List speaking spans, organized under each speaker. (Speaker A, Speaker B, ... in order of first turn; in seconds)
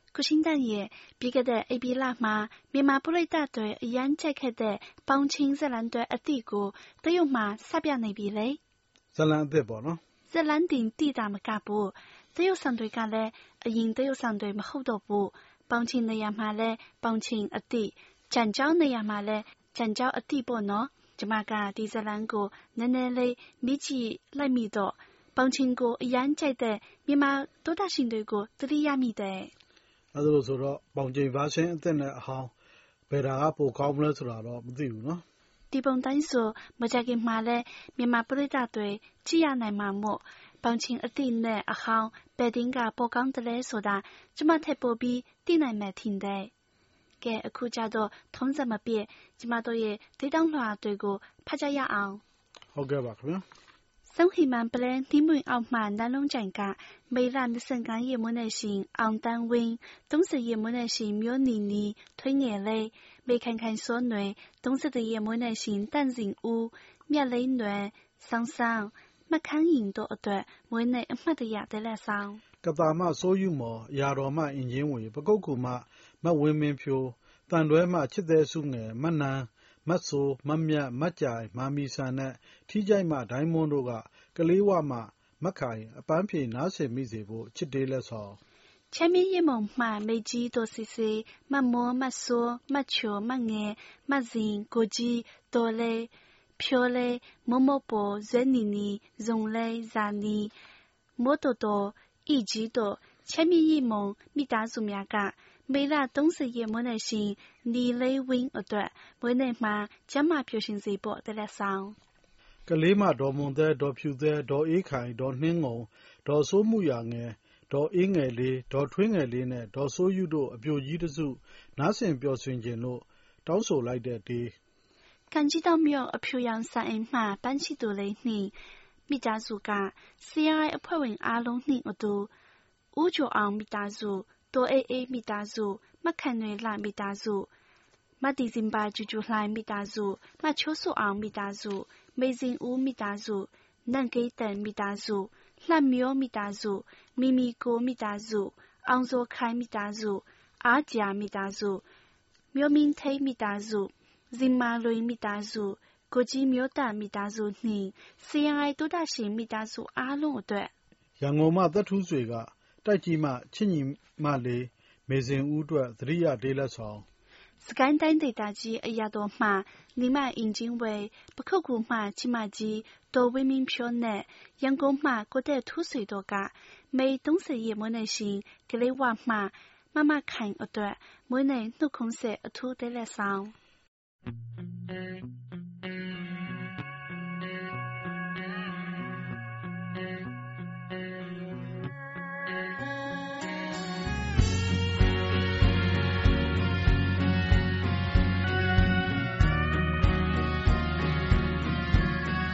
Speaker A: 0.1-8.6, 10.3-29.5, 35.7-46.5, 47.2-52.2, 54.1-72.4, 88.9-100.5, 101.2-112.0, 125.3-128.5, 129.1-132.3, 132.9-137.5, 138.2-151.8, 152.5-160.7, 167.6-183.5
Speaker B: 9.1-10.0, 30.1-32.5, 33.1-35.2, 52.7-53.4, 72.6-88.4, 112.7-124.5, 161.2-167.0